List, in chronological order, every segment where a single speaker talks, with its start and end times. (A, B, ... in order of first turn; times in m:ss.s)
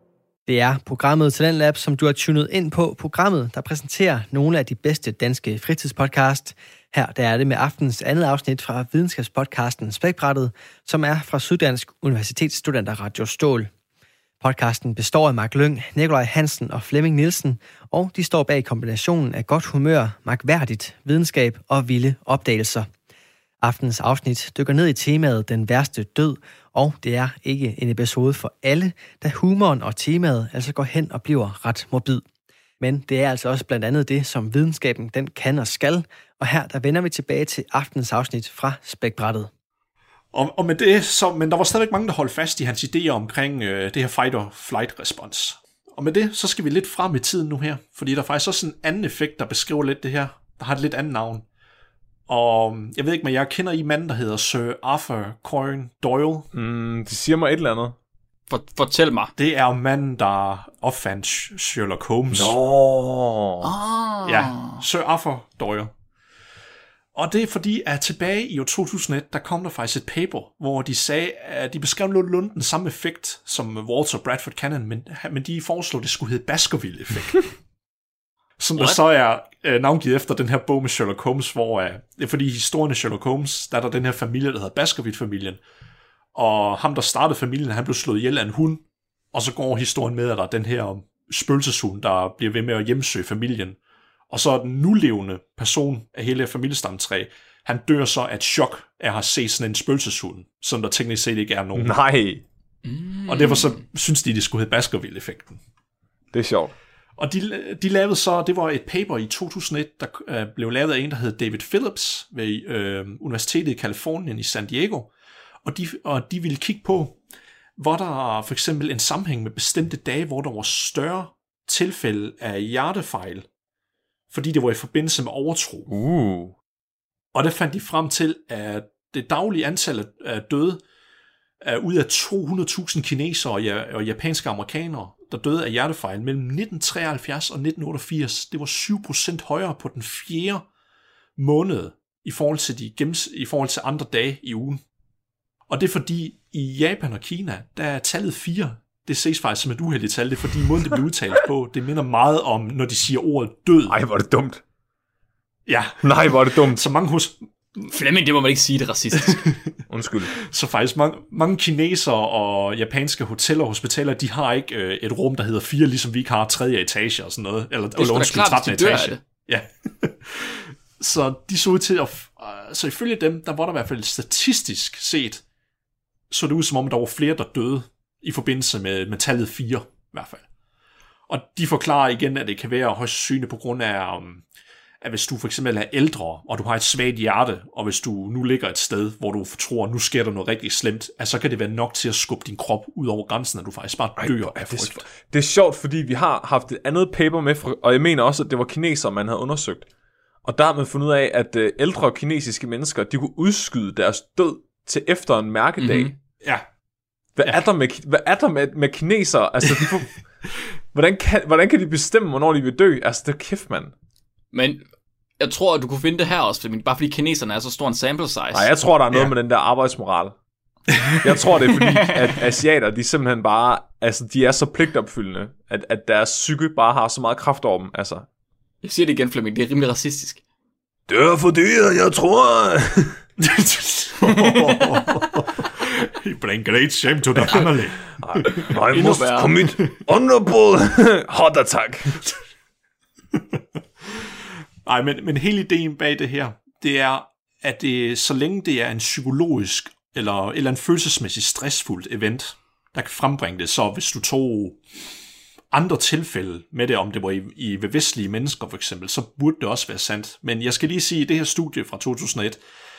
0:00.5-0:13.7 A
0:14.4-0:22.9 A
0:23.6-0:32.2 A
0:32.8-0:39.5 A
0:40.3-0:51.4 B
0:52.3-0:56.5 B
0:56.5-0:58.0 C
0:58.5-0:59.3 D
0:59.4-1:02.6 B
1:02.3-1:03.7 C
1:03.6-1:04.8 D
1:04.2-1:05.9 B
1:07.2-1:17.5 B
1:18.6-1:25.6 B
1:18.8-1:19.0 D
1:26.4-1:33.8 B
1:34.3-1:42.0 B
1:41.8-1:42.4 C
1:42.8-1:43.8 D
1:43.3-1:45.6 B
1:46.3-1:46.7 C
1:47.2-1:55.1 B
1:55.6-1:57.2 B
1:57.8-2:03.5 B
2:04.3-2:05.9 B
2:05.9-2:06.6 C
2:07.3-2:10.8 B
2:11.6-2:20.6 B
2:21.4-2:24.8 B
2:25.7-2:34.0 B
2:33.9-2:34.6 C
2:35.7-2:37.8 B
2:36.0-2:36.8 C
2:37.9-2:39.4 D
2:39.9-2:40.3 C
2:40.3-2:55.4 B
2:48.0-2:49.2 D
2:56.3-3:00.4 B
3:01.3-3:04.4 B
3:05.0-3:15.1 B
3:14.2-3:19.9 C
3:20.4-3:26.2 C
3:25.8-3:26.1 D
3:27.4-3:30.2 C
3:30.9-3:33.9 C
3:34.5-3:34.8 D
3:35.4-3:38.7 D
3:38.5-3:40.4 C
3:41.1-3:48.3 C
3:48.8-3:50.4 D
3:51.1-3:53.3 C
3:53.4-3:59.9 B
3:54.2-3:54.8 D
3:54.3-3:55.2 C
3:58.2-4:02.3 C
3:58.9-3:59.6 D
4:04.8-4:14.8 B
4:15.7-4:22.6 B